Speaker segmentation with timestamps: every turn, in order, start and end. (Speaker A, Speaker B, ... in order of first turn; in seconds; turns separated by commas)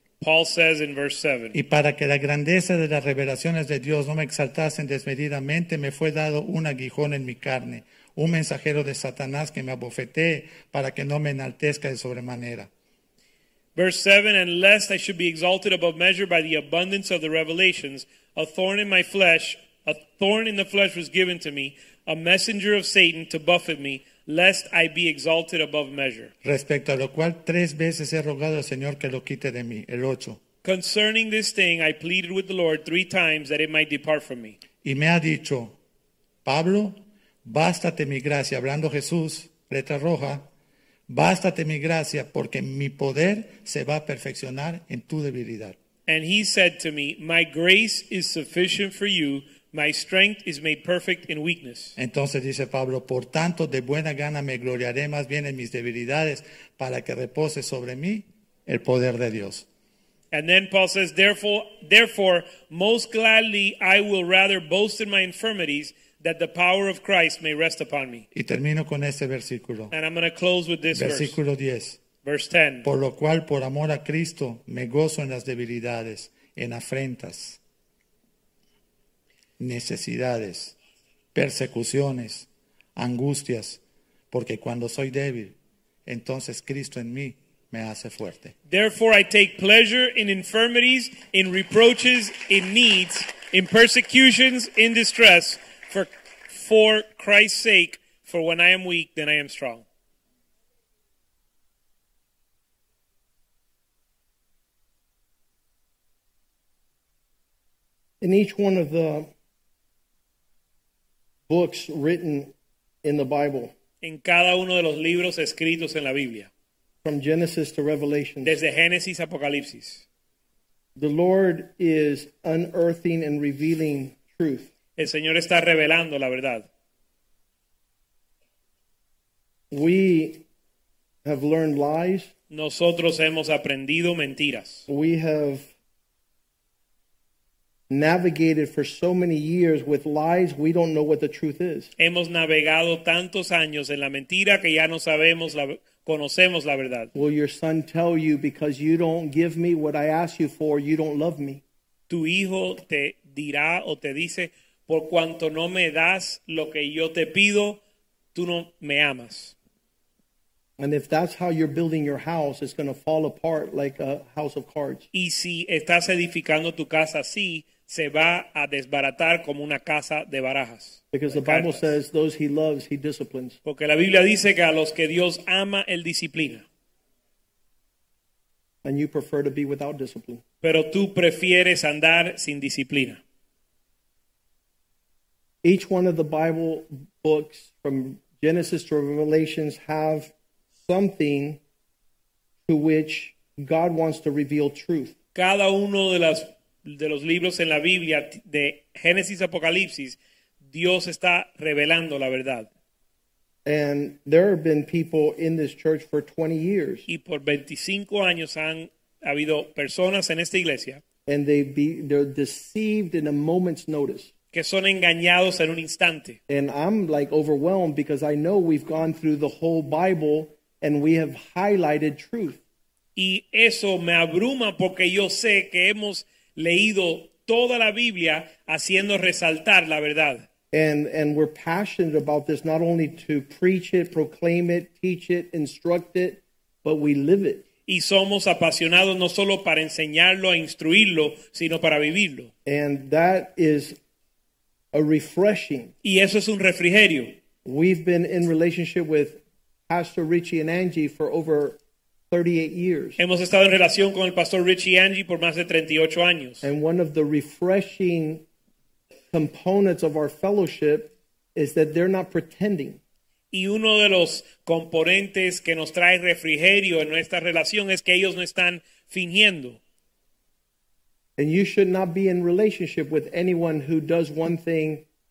Speaker A: 0.2-1.6, Speaker B: 1.5-12.7, Speaker A: 13.8-26.3, Speaker B: 26.4-30.4, Speaker A: 30.6-34.6, Speaker B: 34.8-35.8, Speaker B: 36.5-40.5, Speaker B: 41.1-45.8, Speaker A: 46.1-52.0, Speaker B: 52.0-59.7, Speaker A: 60.3-68.3, Speaker B: 68.3-69.9, Speaker A: 69.9-71.4, Speaker B: 70.9-72.0, Speaker A: 72.2-72.9, Speaker B: 72.8-77.6, Speaker B: 79.6-80.8, Speaker B: 81.3-85.5, Speaker B: 86.1-88.5, Speaker A: 88.7-99.8, Speaker C: 108.2-109.3, Speaker C: 111.5-112.5, Speaker C: 113.0-113.7, Speaker A: 114.0-116.5, Speaker C: 117.0-118.6, Speaker A: 118.4-120.0, Speaker C: 121.0-124.7, Speaker A: 125.0-126.7, Speaker C: 129.7-130.4, Speaker C: 131.2-132.3, Speaker A: 132.5-134.9, Speaker C: 134.9-135.7, Speaker C: 137.9-141.9, Speaker A: 142.0-147.1, Speaker C: 147.2-151.6, Speaker A: 152.1-157.8, Speaker A: 158.3-159.6, Speaker C: 160.8-165.1, Speaker A: 165.1-171.9, Speaker C: 171.1-173.6, Speaker A: 173.7-176.7, Speaker C: 178.8-180.4, Speaker A: 180.6-183.2, Speaker C: 185.6-190.3, Speaker C: 190.8-191.6, Speaker C: 192.7-195.1, Speaker A: 195.3-200.2, Speaker A: 200.7-202.7, Speaker C: 203.7-207.1, Speaker A: 207.1-211.0, Speaker C: 211.3-214.3, Speaker A: 214.5-216.4, Speaker C: 216.5-222.6, Speaker A: 223.2-230.4, Speaker C: 230.7-237.6, Speaker A: 237.9-242.5, Speaker C: 242.7-244.0, Speaker C: 244.9-245.9, Speaker A: 246.0-247.4, Speaker C: 247.7-251.8, Speaker C: 252.3-253.2, Speaker A: 253.2-256.7, Speaker C: 256.6-258.4, Speaker C: 259.3-263.0, Speaker A: 263.5-269.8, Speaker C: 271.4-275.1